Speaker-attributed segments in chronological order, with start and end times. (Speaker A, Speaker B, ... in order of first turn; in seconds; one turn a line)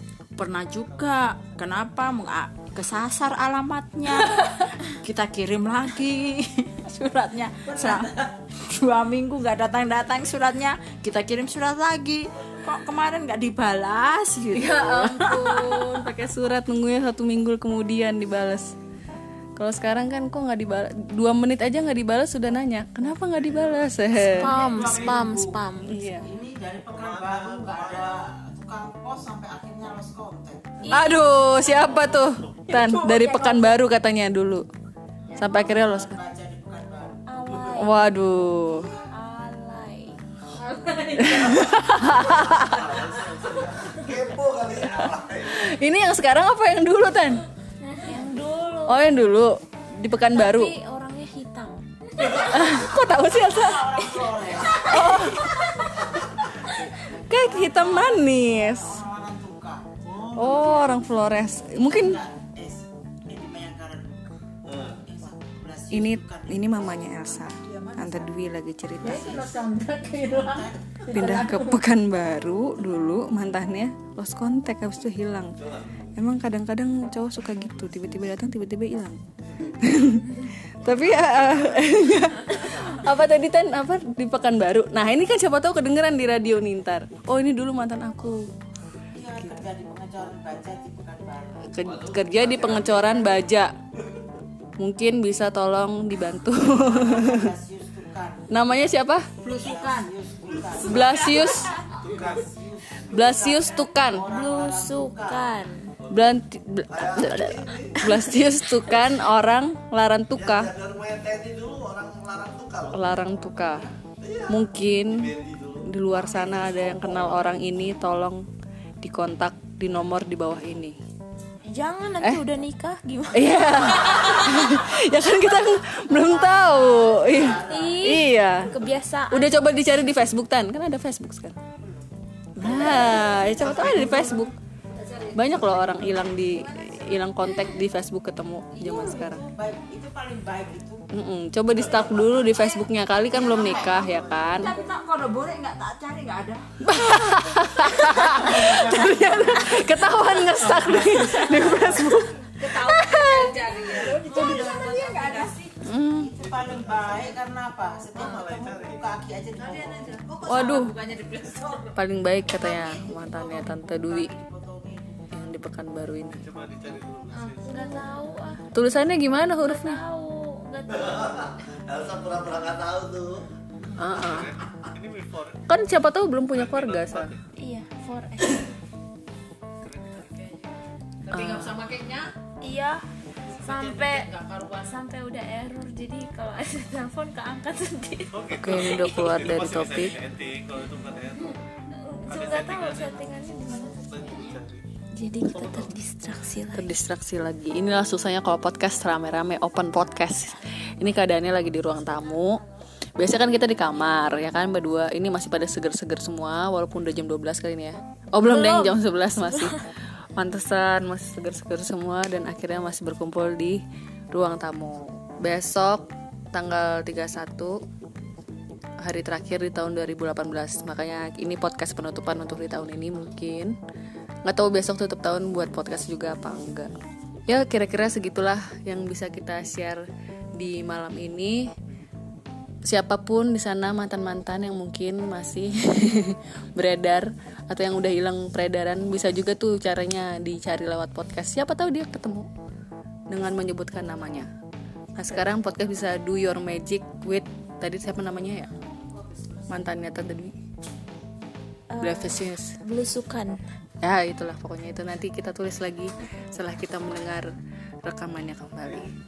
Speaker A: 0.4-15.9
Speaker B: 0.8-1.7
Speaker C: 4.2-4.7
Speaker C: 14.5-18.7
Speaker C: 19.6-24.9
Speaker D: 24.2-26.0
Speaker E: 24.3-25.6
Speaker C: 25.9-26.3
Speaker E: 26.1-30.8
Speaker B: 26.9-28.3
Speaker D: 30.8-32.2
Speaker C: 30.9-34.7
Speaker D: 32.8-33.6
Speaker C: 35.4-36.2
Speaker E: 35.4-37.3
Speaker D: 37.3-38.2
Speaker C: 37.6-38.9
Speaker D: 39.1-41.3
Speaker C: 41.2-43.0
Speaker B: 41.4-45.7
Speaker C: 44.9-47.4
Speaker D: 47.8-49.0
Speaker C: 48.9-50.8
Speaker D: 50.3-52.5
Speaker C: 52.4-55.7
Speaker E: 53.5-55.1
Speaker D: 54.7-56.1
Speaker C: 57.1-59.0
Speaker E: 57.7-61.1
Speaker C: 60.3-62.2
Speaker E: 61.7-64.3
Speaker B: 64.7-65.0
Speaker E: 65.0-67.9
Speaker C: 65.9-69.5
Speaker E: 69.0-69.6
Speaker A: 69.0-71.8
Speaker E: 70.2-71.4
Speaker C: 71.1-75.5
Speaker C: 76.2-79.2
Speaker C: 79.8-88.5
Speaker B: 81.2-81.9
Speaker E: 89.1-91.8
Speaker C: 91.7-93.7
Speaker B: 91.8-93.4
Speaker C: 94.8-97.5
Speaker E: 96.8-98.5
Speaker C: 98.5-99.3
Speaker E: 99.4-105.4
Speaker A: 99.4-100.1
Speaker B: 100.5-101.1
Speaker C: 100.8-101.8
Speaker B: 102.0-102.5
Speaker C: 103.1-104.3
Speaker D: 104.3-105.9
Speaker B: 106.0-106.3
Speaker C: 106.1-110.7
Speaker B: 106.9-108.4
Speaker B: 110.3-117.8
Speaker C: 112.9-113.9
Speaker C: 114.5-118.4
Speaker C: 119.0-121.0
Speaker D: 121.7-124.2
Speaker C: 123.3-128.7
Speaker E: 126.2-128.2
Speaker D: 127.6-130.0
Speaker C: 129.3-131.6
Speaker C: 132.6-134.5
Speaker A: 132.6-134.5
Speaker E: 132.7-134.2
Speaker C: 135.3-139.4
Speaker A: 138.8-140.9
Speaker E: 138.8-140.3
Speaker C: 141.1-144.8
Speaker A: 143.3-146.6
Speaker B: 143.4-144.7
Speaker C: 146.8-153.9
Speaker E: 152.7-155.7
Speaker D: 153.2-155.0
Speaker A: 153.4-155.6
Speaker C: 155.8-156.3
Speaker E: 156.2-160.8
Speaker B: 156.4-157.4
Speaker B: 158.2-159.2
Speaker A: 159.8-160.2
Speaker C: 160.4-161.0
Speaker C: 161.9-164.3
Speaker E: 162.5-165.2
Speaker C: 165.3-166.5
Speaker B: 166.4-168.2
Speaker D: 167.3-168.7
Speaker C: 168.7-170.0
Speaker D: 169.5-171.3
Speaker B: 170.9-173.4
Speaker C: 174.0-174.6
Speaker B: 174.2-175.6
Speaker C: 175.7-177.4
Speaker B: 176.5-177.4
Speaker D: 177.6-178.7
Speaker B: 179.9-180.5
Speaker C: 181.3-181.8
Speaker D: 182.6-183.0
Speaker D: 183.6-189.6
Speaker B: 188.3-191.6
Speaker C: 188.5-190.2
Speaker D: 191.5-194.6
Speaker B: 192.3-194.8
Speaker D: 195.2-196.9
Speaker B: 195.5-196.0
Speaker C: 196.7-202.6
Speaker C: 203.2-209.8
Speaker D: 208.4-208.9
Speaker C: 210.4-217.8
Speaker C: 219.0-223.8
Speaker C: 224.5-226.9
Speaker C: 227.5-230.0
Speaker C: 230.6-231.7
Speaker C: 232.9-242.5
Speaker C: 243.3-244.5
Speaker C: 245.2-248.7
Speaker C: 249.7-250.5
Speaker D: 251.9-253.6
Speaker C: 252.0-252.8
Speaker C: 254.0-257.5
Speaker C: 258.0-259.1